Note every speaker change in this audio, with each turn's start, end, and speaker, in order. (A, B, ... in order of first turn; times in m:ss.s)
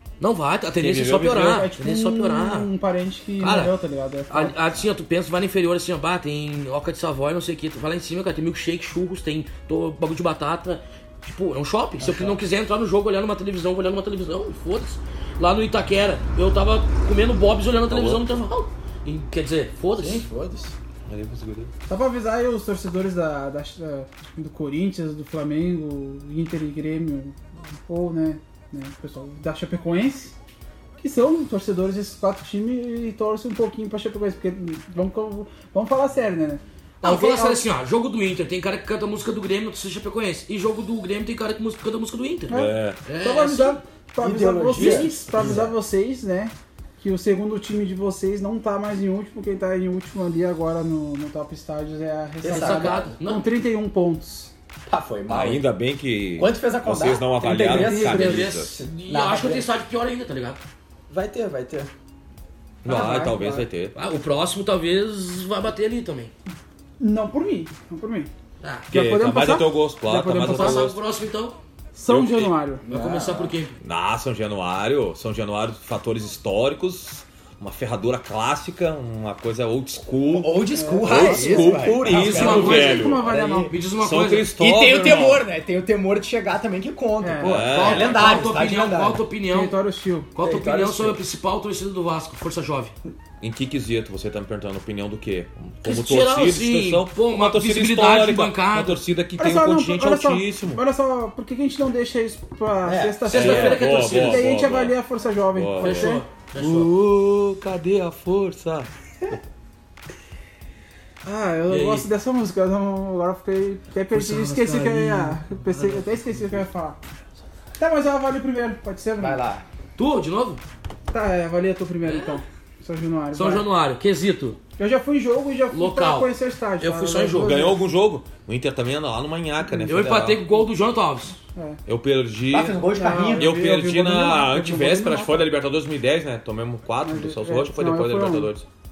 0:00.2-0:02.7 A
0:00.8-0:01.7 B
0:01.3-0:04.6 C
0:03.4-0:03.7 A
0:04.3-0:20.3 A
0:12.0-0:12.4 D
0:17.9-0:18.2 B
0:20.0-0:20.8 D
0:21.1-0:21.7 B
0:21.9-0:30.3 C
0:31.0-0:37.6 C
0:37.0-0:43.8 A
0:42.5-0:43.0 B
0:42.5-0:54.5 C
0:44.2-0:45.6 D
0:44.7-0:45.6 A
0:52.4-0:53.2 D
0:52.4-0:53.5 A
0:54.9-0:55.6 D
0:55.3-0:58.8 B
0:56.4-0:59.7 D
0:57.7-0:58.3 C
0:57.7-1:00.6 A
1:01.1-1:01.9 D
1:02.8-1:04.0 B
1:02.8-1:03.6 C
1:03.9-1:06.3 A
1:07.0-1:08.3 C
1:08.6-1:08.9 A
1:08.9-1:10.9 C
1:08.9-1:11.0 B
1:10.4-1:11.6 A
1:11.9-1:12.8 C
1:12.1-1:12.5 B
1:12.8-1:13.6 D
1:12.9-1:13.8 A
1:13.8-1:23.2 B
1:20.2-1:23.8 D
1:20.7-1:23.7 C
1:22.1-1:23.0 A
1:23.7-1:24.5 A
1:24.0-1:25.4 B
1:24.5-1:29.2 D
1:27.2-1:27.6 C
1:27.4-1:28.6 B
1:27.6-1:29.8 A
1:29.5-1:30.3 C
1:30.3-1:32.9 A
1:30.4-1:31.2 D
1:33.4-1:40.8 B
1:35.8-1:39.0 A
1:39.4-1:46.2 C
1:42.8-1:43.8 D
1:43.3-1:44.5 A
1:43.3-1:45.0 B
1:45.5-1:49.4 B
1:45.8-1:46.9 A
1:51.2-1:57.0 C
1:51.7-1:52.1 A
1:54.1-1:55.8 A
1:57.8-1:59.4 C
1:59.2-1:59.6 D
2:00.0-2:00.6 A
2:01.1-2:03.6 C
2:02.0-2:02.4 A
2:03.3-2:04.6 A
2:04.8-2:07.8 C
2:05.7-2:07.6 A
2:07.3-2:10.4 B
2:09.8-2:11.4 A
2:11.5-2:11.8 C
2:11.9-2:12.8 B
2:12.5-2:13.5 D
2:12.9-2:15.5 C
2:13.4-2:18.7 B
2:17.0-2:18.5 C